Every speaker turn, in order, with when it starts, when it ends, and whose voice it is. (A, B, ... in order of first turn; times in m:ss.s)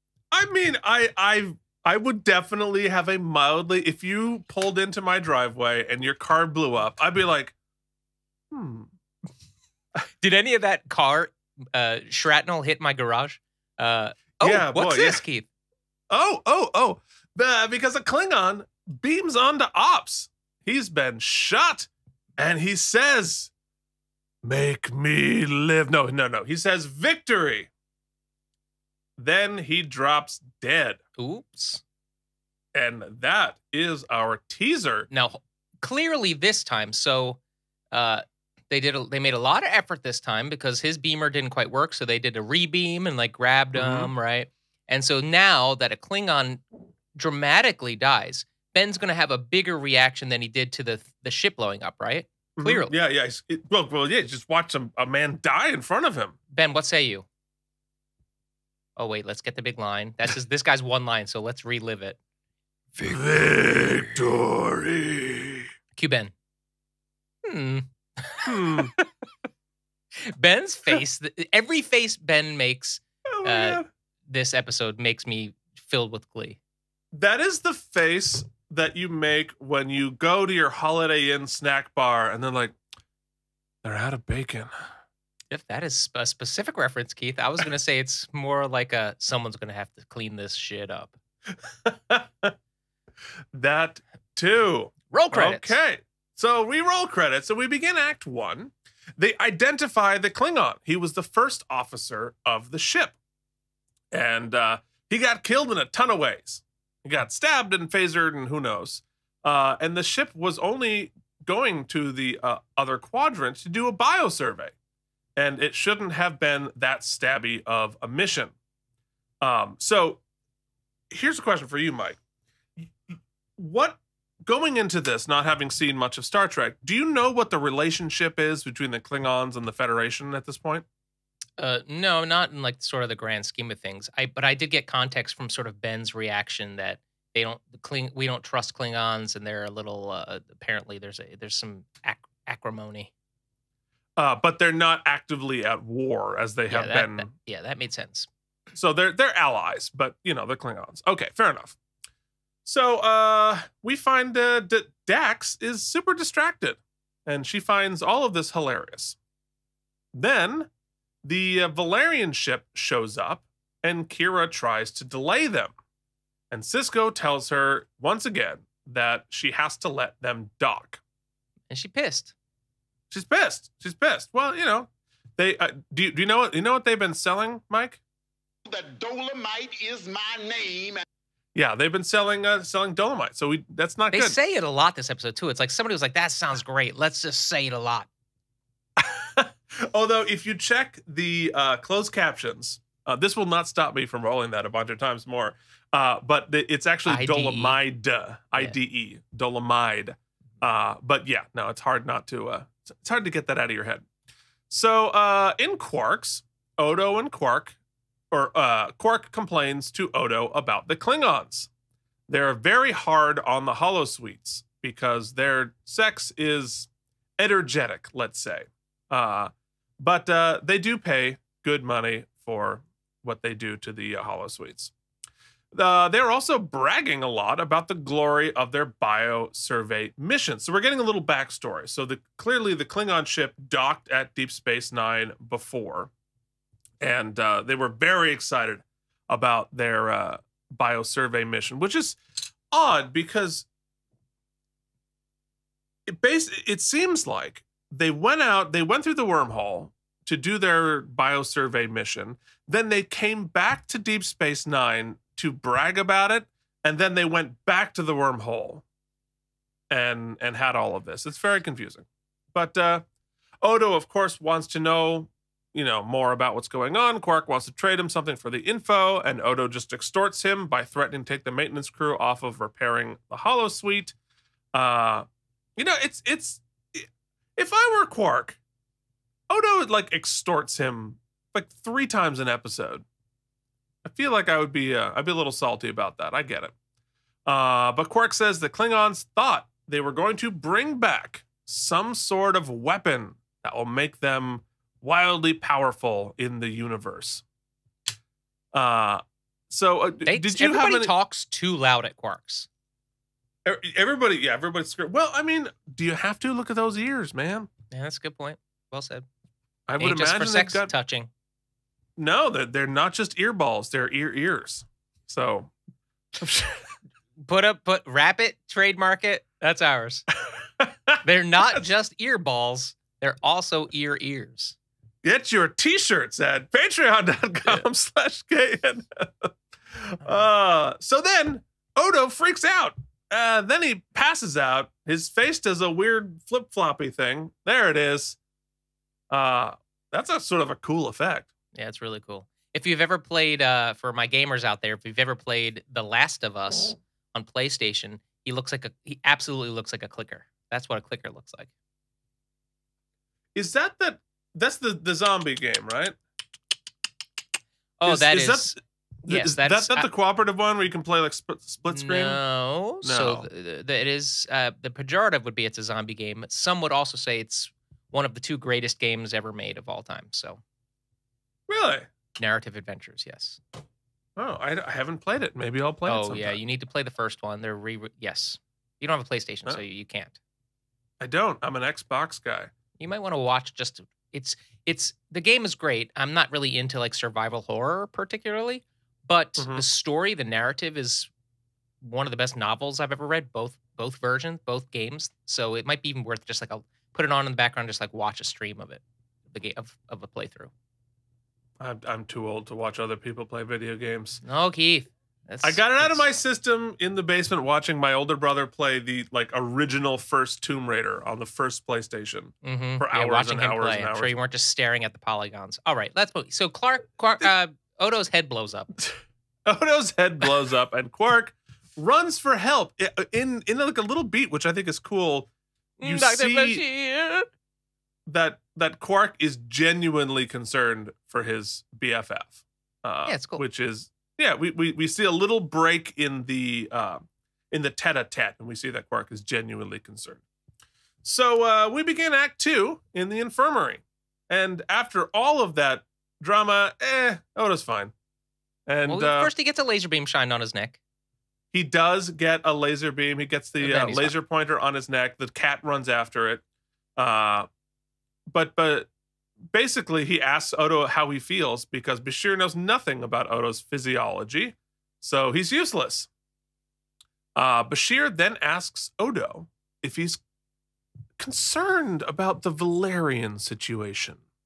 0:00.3-0:07.5 A
0:08.5-0:08.9 A
0:10.2-0:15.5 B
0:14.4-0:15.2 A
0:16.1-0:23.5 A
0:24.4-0:27.7 A
0:29.2-0:31.0 A
0:31.2-0:31.8 B
0:32.7-0:35.1 A
0:35.1-0:37.4 B
0:37.9-0:46.6 B
0:43.7-0:44.1 A
0:47.1-0:52.9 B
0:52.6-0:56.3 A
0:56.5-0:57.2 B
0:59.0-1:02.2 B
1:03.0-1:05.7 A
1:06.0-1:06.3 B
1:07.4-1:09.0 B
1:08.4-1:08.9 A
1:10.2-1:16.6 B
1:13.3-1:13.8 A
1:17.1-1:22.8 A
1:23.8-1:24.7 A
1:25.5-1:31.2 B
1:31.6-1:32.5 A
1:33.5-1:43.2 A
1:35.1-1:35.8 B
1:44.1-1:54.7 A
1:55.4-1:58.5 A
1:59.4-2:00.2 A
2:01.1-2:02.2 A
2:02.8-2:10.8 A
2:11.6-2:23.1 B
2:24.2-2:27.3 A
2:26.7-2:28.3 B
2:28.7-2:31.8 A
2:32.6-2:39.2 A
2:40.1-2:40.7 A
2:41.2-2:45.7 A
2:46.5-2:51.0 A
2:51.7-2:52.3 B
2:53.1-2:58.0 A
2:58.6-3:01.0 C
3:01.5-3:04.4 A
3:04.1-3:08.1 B
3:09.0-3:24.0 A
3:17.1-3:17.8 B
3:24.7-3:27.8 A
3:28.3-3:31.7 A
3:32.3-3:44.9 A
3:45.7-3:56.1 A
3:57.0-4:02.2 A
4:02.7-4:03.7 A
4:06.0-4:18.8 A
4:19.9-4:23.0 A
4:23.6-4:34.2 A
4:34.7-4:38.6 A
4:39.5-4:43.0 A
4:44.0-4:46.7 A
4:47.4-4:57.4 A
4:58.7-5:01.1 A
5:00.2-5:02.7 B
5:03.6-5:07.7 A
5:07.9-5:09.2 B
5:09.9-5:10.9 A
5:10.0-5:11.3 B
5:12.2-5:15.7 A
5:16.4-5:16.8 A
5:17.4-5:20.2 B
5:20.8-5:21.2 A
5:21.2-5:24.8 B
5:25.2-5:38.4 A
5:39.3-5:41.5 A
5:41.7-5:51.7 B
5:53.5-5:56.2 A
5:58.0-5:58.8 B
5:58.0-6:02.4 A
5:59.3-6:00.1 B
6:01.9-6:10.6 B
6:03.0-6:03.5 A
6:11.7-6:12.1 A
6:12.4-6:13.6 B
6:14.4-6:16.6 A
6:16.0-6:20.4 B
6:21.2-6:22.7 A
6:23.0-6:31.3 B
6:29.6-6:29.8 A
6:32.0-6:40.7 B
6:41.8-6:44.4 A
6:44.4-6:46.2 B
6:45.6-6:54.4 A
6:52.6-6:58.9 B
6:59.0-7:05.5 A
7:06.0-7:07.4 B
7:06.0-7:06.8 A
7:08.3-7:20.4 A
7:13.2-7:13.6 B
7:21.2-7:28.1 A
7:28.9-7:29.5 A
7:29.0-7:31.0 B
7:31.7-7:36.6 A
7:33.8-7:34.3 B
7:37.2-7:37.7 A
7:38.5-7:39.1 A
7:39.7-7:46.3 A
7:47.6-7:50.4 A
7:51.4-7:54.4 A